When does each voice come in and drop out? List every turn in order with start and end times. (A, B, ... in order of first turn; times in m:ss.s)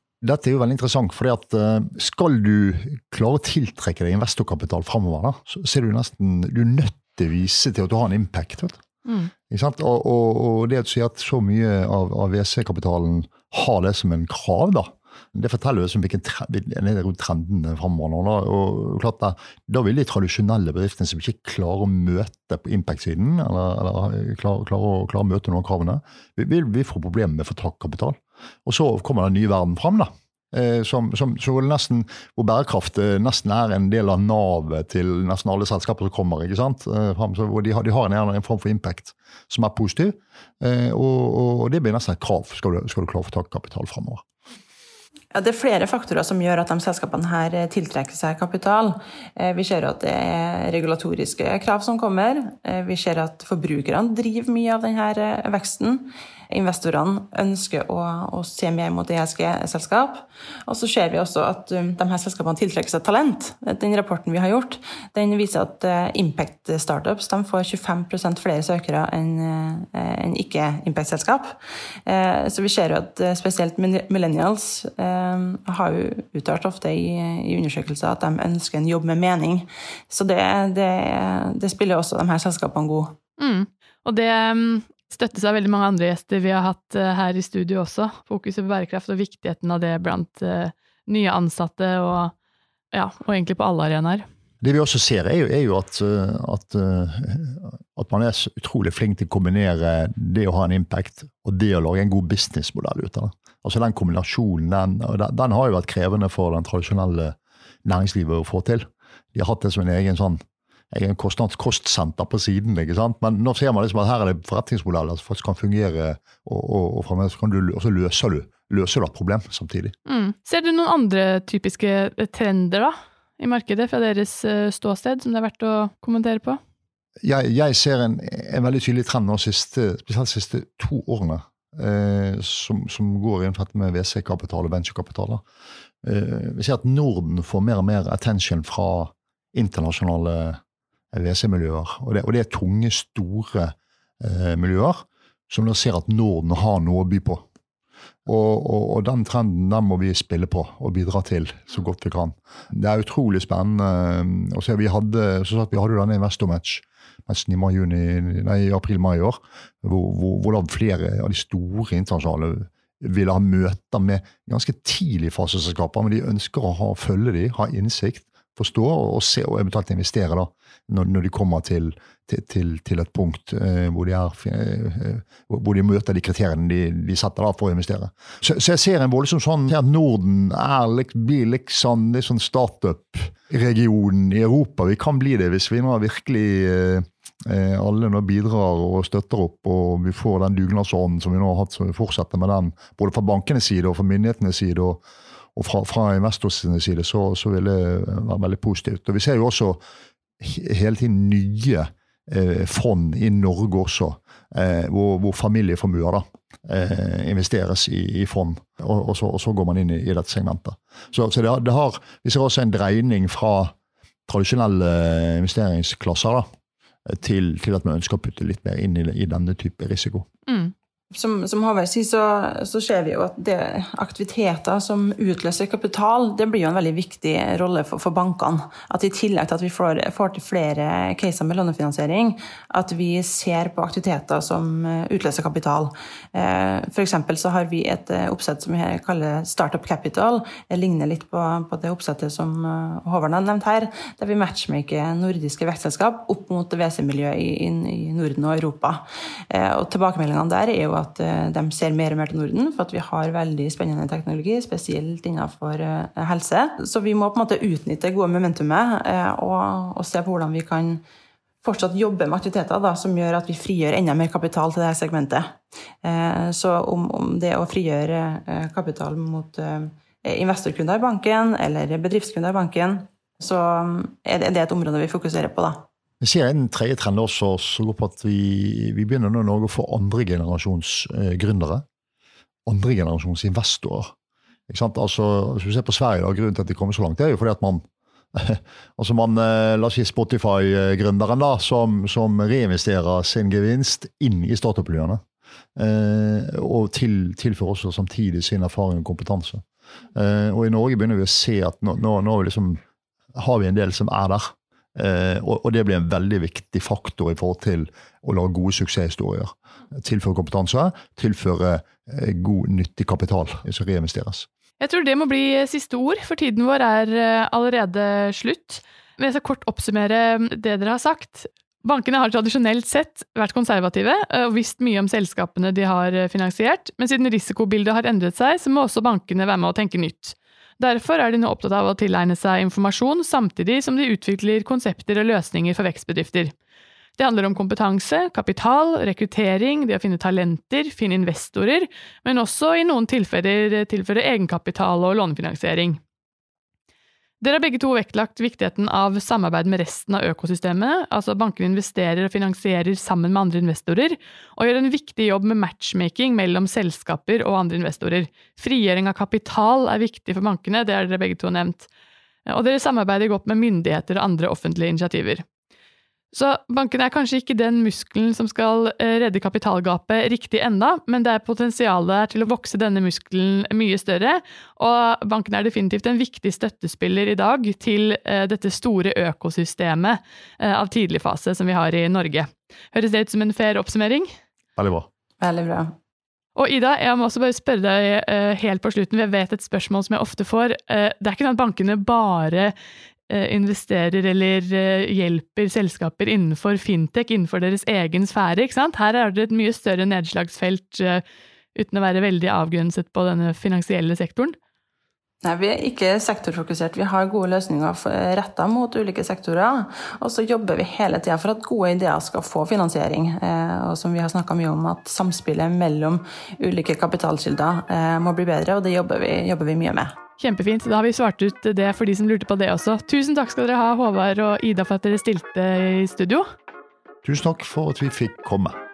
0:00.2-0:08.8 A
0:09.1-0:09.3 B
0:09.5-0:44.2 A
0:45.3-1:11.6 C
1:12.1-1:23.2 C
1:23.4-1:32.3 B
1:32.9-1:34.3 B
1:34.6-1:50.4 A
1:50.9-1:59.9 A
2:00.1-2:06.6 B
2:07.2-2:15.4 A
2:16.0-2:20.6 A
2:21.1-2:27.4 A
2:28.2-3:15.0 A
3:15.6-3:19.8 A
3:20.4-3:33.7 A
3:34.3-3:36.5 A
3:37.1-3:40.3 A
3:40.5-3:40.7 B
3:41.1-4:21.0 C
4:21.6-4:35.8 C
4:36.2-4:41.8 A
4:42.7-4:44.1 A
4:44.7-4:55.2 A
4:55.8-5:02.8 A
5:03.3-5:14.5 A
5:14.8-5:36.5 B
5:37.2-5:46.0 B
5:47.4-6:01.9 B
6:02.5-6:05.4 B
6:06.3-6:24.4 B
6:24.8-6:25.1 A
6:25.4-6:25.9 C
6:26.6-6:32.7 B
6:33.3-6:41.2 B
6:41.8-6:44.6 B
6:45.4-7:00.2 C
7:00.4-7:06.5 B
7:07.2-7:08.8 A